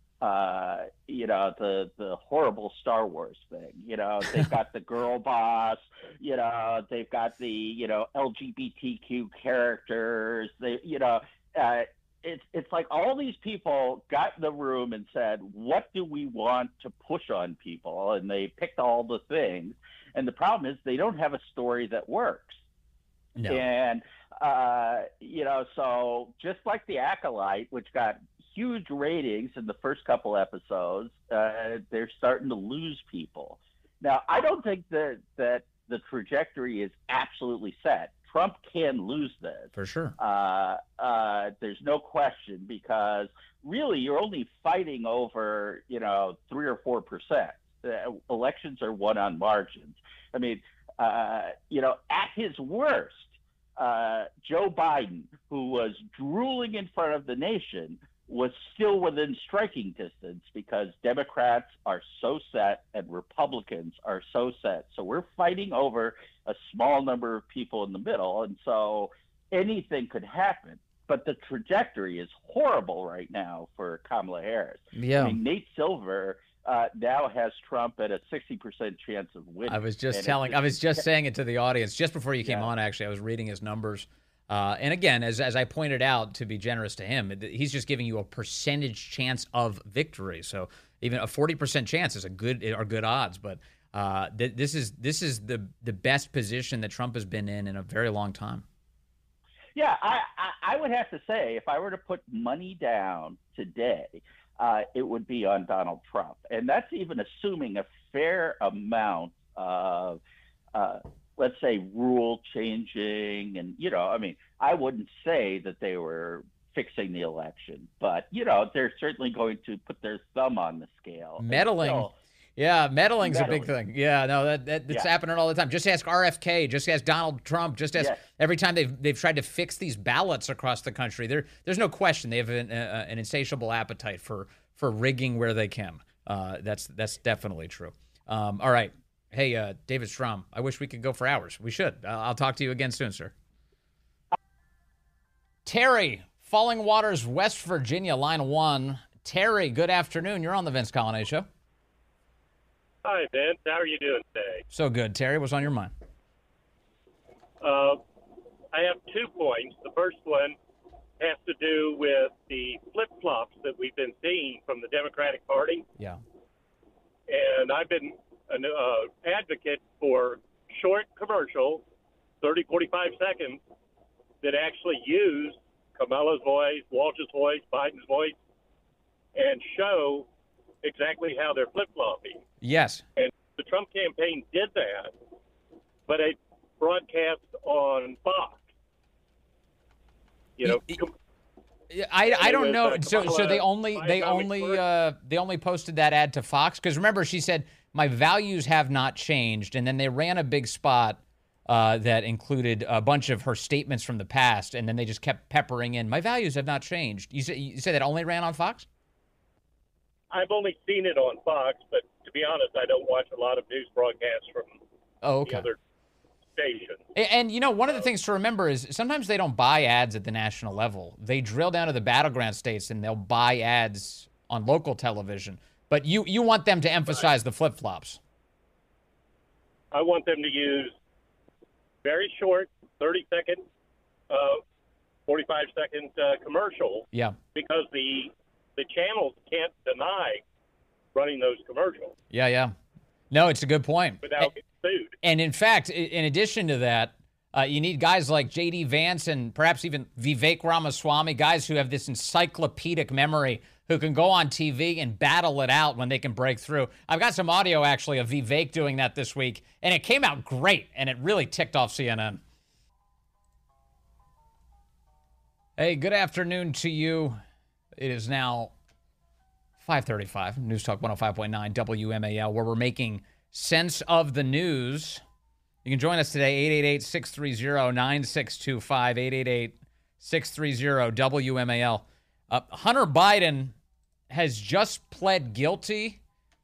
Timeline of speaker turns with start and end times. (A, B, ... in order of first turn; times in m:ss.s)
0:00.2-0:22.6 A
0:23.4-0:23.6 B
0:23.5-1:20.6 A
0:39.8-0:40.2 B
1:14.9-1:15.4 B
1:19.7-1:38.6 B
1:39.8-1:50.2 A
1:50.7-2:02.2 A
2:01.4-2:23.3 B
2:03.2-2:03.7 A
2:25.7-2:31.5 B
2:33.0-2:34.6 C
2:34.7-2:35.9 B
2:37.6-2:38.0 C
2:38.7-2:40.6 C
2:41.2-2:45.8 C
2:47.3-2:51.8 C
2:52.4-2:53.6 C
2:54.4-2:58.4 C
2:59.4-3:00.3 C
3:00.8-3:02.4 C
3:02.6-3:03.0 B
3:03.2-3:05.1 C
3:06.1-3:08.6 C
3:10.6-3:11.1 C
3:10.6-3:11.0 B
3:11.9-3:28.9 B
3:12.2-3:14.8 C
3:30.3-3:34.8 C
3:35.2-3:35.7 B
3:35.5-3:35.8 C
3:36.6-3:37.0 C
3:37.2-3:48.2 B
3:49.9-3:50.9 C
3:52.0-3:53.6 C
3:54.3-3:54.6 C
3:55.3-4:00.4 C
4:01.2-4:02.1 C
4:02.3-4:02.7 B
4:03.3-4:04.5 B
4:04.2-4:05.2 C
4:05.2-4:22.4 B
4:25.8-4:27.4 B
4:28.0-4:28.7 B
4:29.8-4:35.2 B
4:35.8-4:43.7 B
4:44.3-4:46.2 B